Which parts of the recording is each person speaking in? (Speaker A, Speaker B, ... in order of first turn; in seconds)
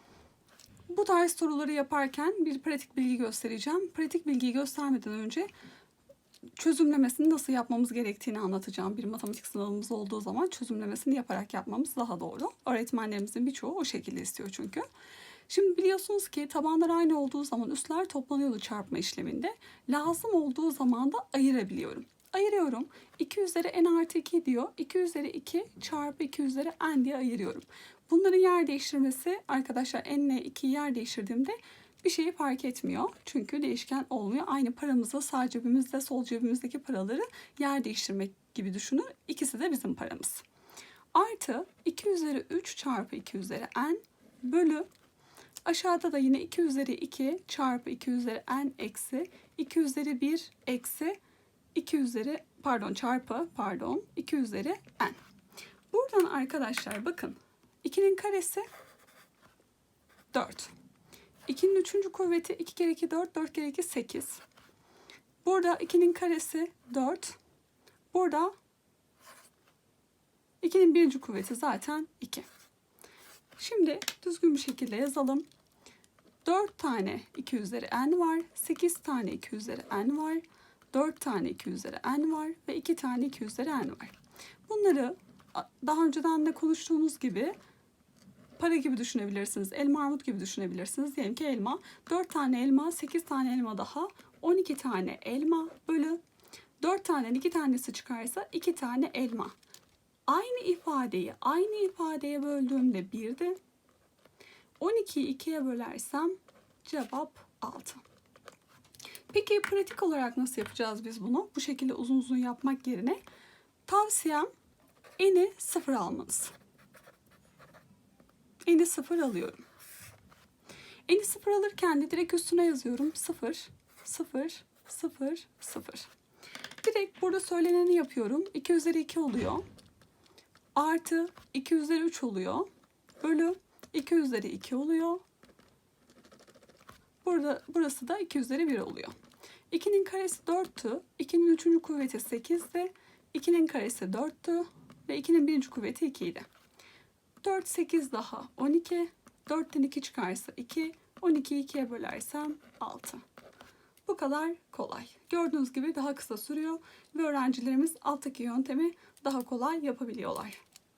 Speaker A: 0.9-5.5, 6.6-14.8, 15.5-40.4, 41.1-44.9, 45.6-51.2, 51.7-55.2, 55.9-58.6, 60.3-60.7, 61.5-64.4, 65.4-67.4, 68.1-68.5, 70.6-72.4, 73.6-75.4, 76.4-84.1, 84.7-87.5, 88.6-96.2, 96.8-99.5, 100.3-103.6, 104.8-108.0, 109.3-113.2, 113.8-114.5, 115.2-116.5, 118.6-119.6, 121.1-126.1, 126.8-129.6, 130.7-132.7, 133.2-135.2, 137.2-139.1, 139.7-146.5, 147.4-153.2, 154.1-160.6